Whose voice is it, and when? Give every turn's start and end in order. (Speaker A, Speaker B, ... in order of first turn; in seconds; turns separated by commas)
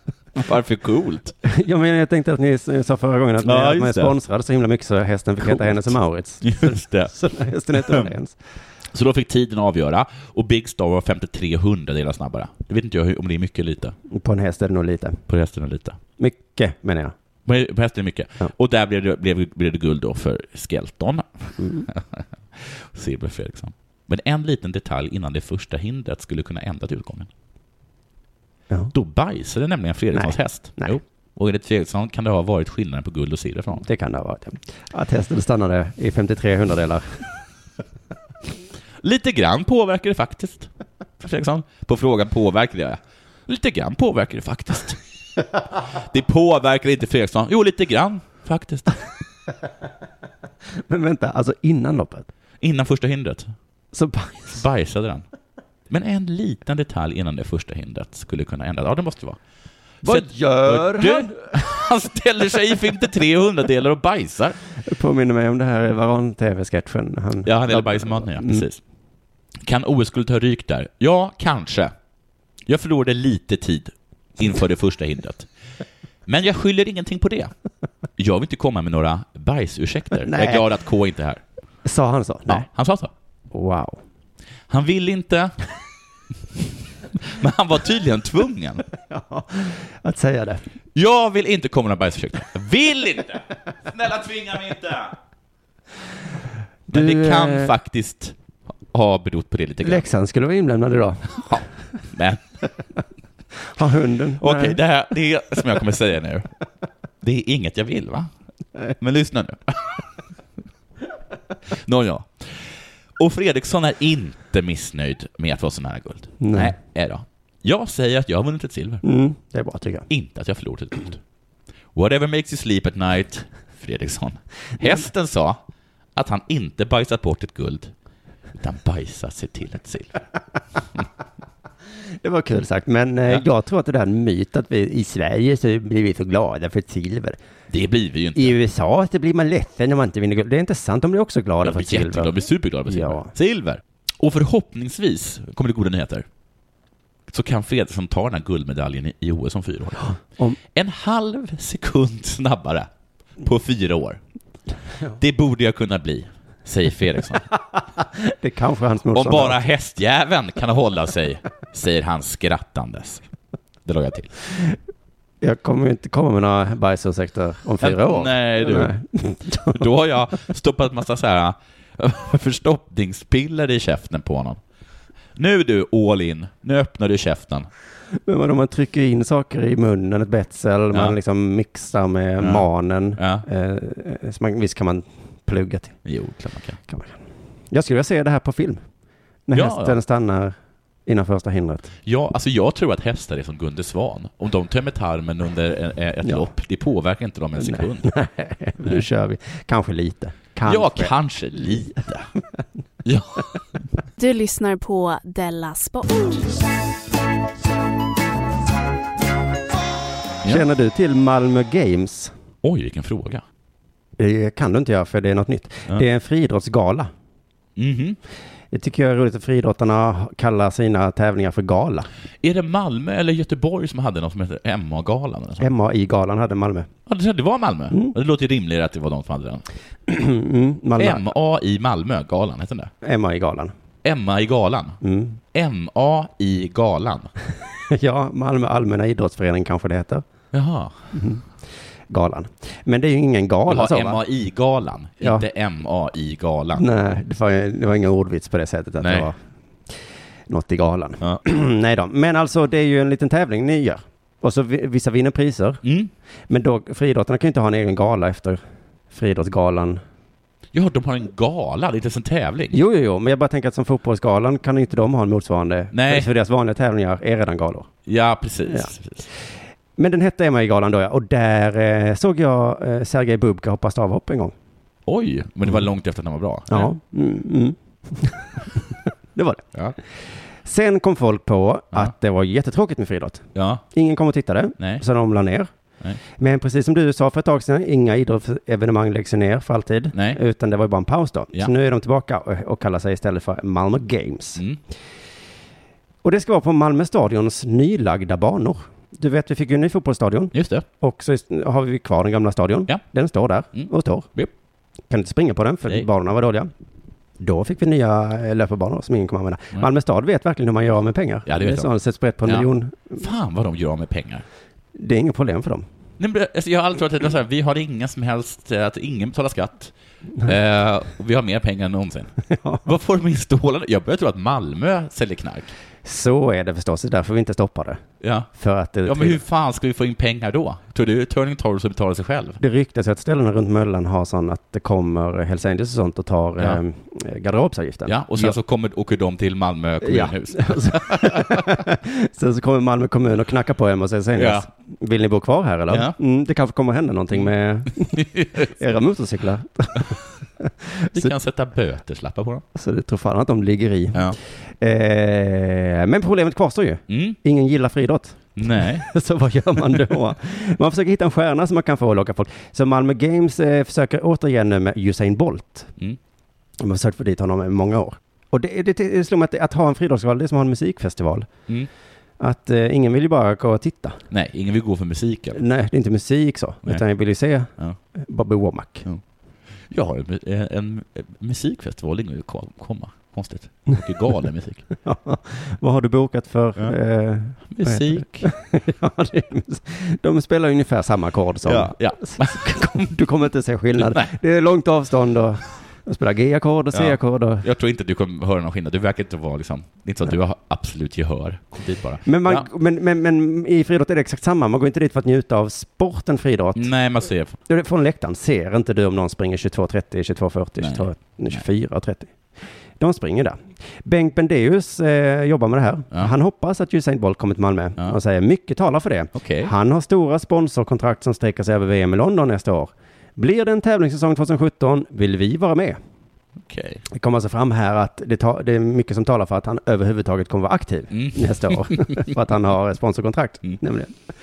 Speaker A: 0.3-1.3, Speaker B: 1.4-8.4, Speaker A: 3.4-4.1, Speaker A: 5.4-7.1, Speaker A: 7.8-8.1, Speaker A: 8.9-13.9, Speaker B: 14.1-15.2, Speaker A: 15.3-16.0, Speaker B: 16.2-17.1, Speaker A: 17.4-27.3, Speaker B: 21.6-21.9, Speaker A: 28.9-33.9, Speaker B: 30.1-31.0, Speaker B: 33.8-37.2, Speaker A: 39.0-45.0, Speaker A: 45.9-49.0, Speaker B: 50.9-52.3, Speaker A: 52.6-53.5, Speaker B: 53.9-54.6, Speaker A: 54.5-55.2, Speaker A: 55.9-59.4, Speaker B: 60.0-61.7, Speaker A: 60.0-64.6, Speaker B: 64.8-68.7, Speaker A: 67.4-68.8, Speaker A: 69.6-71.9, Speaker A: 72.7-75.5, Speaker A: 76.2-77.5, Speaker A: 78.2-81.4, Speaker B: 80.2-80.6, Speaker B: 81.8-82.7, Speaker A: 82.5-83.1, Speaker B: 83.5-84.0, Speaker A: 84.7-85.5, Speaker A: 87.2-88.8, Speaker B: 89.1-90.6, Speaker A: 90.9-95.2, Speaker B: 96.9-97.7, Speaker A: 96.9-98.4, Speaker A: 98.9-100.0, Speaker B: 99.8-101.6, Speaker A: 101.3-102.4, Speaker B: 103.7-104.8, Speaker A: 104.4-106.5, Speaker A: 107.2-108.3, Speaker A: 109.0-110.1, Speaker A: 111.7-119.0, Speaker B: 116.4-116.7, Speaker B: 119.0-120.1, Speaker A: 120.1-121.2, Speaker A: 121.9-125.6, Speaker A: 126.1-127.9, Speaker A: 128.6-130.2, Speaker B: 132.2-137.4, Speaker A: 137.7-138.6, Speaker B: 138.3-143.3, Speaker A: 141.6-146.2, Speaker A: 147.3-150.1, Speaker B: 150.0-150.6, Speaker A: 150.7-154.2, Speaker A: 155.2-157.4, Speaker B: 157.5-159.6, Speaker A: 159.1-163.2, Speaker A: 163.8-164.3, Speaker B: 165.4-169.9, Speaker A: 167.8-174.6, Speaker A: 175.3-177.7, Speaker B: 178.2-186.0, Speaker A: 182.4-183.4, Speaker A: 186.0-186.8, Speaker B: 186.9-187.2, Speaker B: 187.7-188.8, Speaker B: 189.4-190.5, Speaker A: 189.5-190.0, Speaker B: 191.1-191.9, Speaker A: 192.1-198.1, Speaker B: 197.6-201.1, Speaker A: 200.6-202.3, Speaker A: 203.0-203.5, Speaker C: 204.2-206.6, Speaker B: 210.4-212.3, Speaker A: 212.6-213.4, Speaker B: 214.2-217.1, Speaker A: 217.8-218.2, Speaker B: 218.7-222.1, Speaker A: 222.4-225.7, Speaker B: 225.6-226.9, Speaker A: 227.1-229.6, Speaker B: 227.9-228.1, Speaker B: 230.1-231.2, Speaker A: 231.0-232.9, Speaker B: 233.0-233.7, Speaker A: 234.0-235.0, Speaker B: 235.0-235.4, Speaker A: 235.5-237.3, Speaker B: 237.9-240.2, Speaker A: 240.5-241.1, Speaker B: 241.1-241.4, Speaker B: 242.1-244.2, Speaker A: 243.7-246.9, Speaker B: 246.8-249.4, Speaker A: 249.0-249.3, Speaker B: 250.5-255.8, Speaker A: 255.8-256.1, Speaker B: 256.5-260.0, Speaker A: 260.7-262.8, Speaker B: 262.7-267.9, Speaker A: 265.9-266.3, Speaker A: 268.1-269.2, Speaker B: 270.0-274.5, Speaker A: 275.1-276.9, Speaker B: 276.7-278.7, Speaker B: 279.3-279.6, Speaker B: 280.6-285.7, Speaker A: 283.5-283.8, Speaker A: 284.8-285.0, Speaker B: 286.4-294.6, Speaker A: 290.1-290.4, Speaker B: 296.2-304.3, Speaker A: 300.5-300.9, Speaker A: 303.7-304.5, Speaker B: 305.1-306.7, Speaker B: 307.4-313.2, Speaker A: 311.4-311.9, Speaker A: 312.4-314.4, Speaker B: 314.9-315.9, Speaker A: 316.2-325.7, Speaker B: 322.5-322.8, Speaker B: 326.0-328.0, Speaker A: 328.2-328.5, Speaker B: 328.5-329.4, Speaker A: 329.0-332.6, Speaker B: 332.6-338.6, Speaker A: 338.1-341.8, Speaker B: 340.0-351.3, Speaker A: 344.4-344.7, Speaker A: 345.9-346.2, Speaker A: 348.0-348.7, Speaker A: 351.1-352.6, Speaker B: 352.7-365.9, Speaker A: 357.1-357.4, Speaker A: 358.6-359.1, Speaker B: 366.8-371.5, Speaker B: 372.4-374.2, Speaker A: 374.3-375.6, Speaker B: 375.5-379.1, Speaker A: 379.8-384.9, Speaker B: 385.0-397.6, Speaker A: 387.6-388.5, Speaker A: 391.6-393.0, Speaker A: 394.0-394.3, Speaker A: 396.9-402.7, Speaker B: 402.2-406.9, Speaker A: 406.7-407.6, Speaker B: 407.7-412.4, Speaker A: 410.8-411.6, Speaker B: 413.0-426.0, Speaker A: 419.3-419.7, Speaker A: 426.6-427.0, Speaker B: 427.1-434.2, Speaker A: 431.1-432.2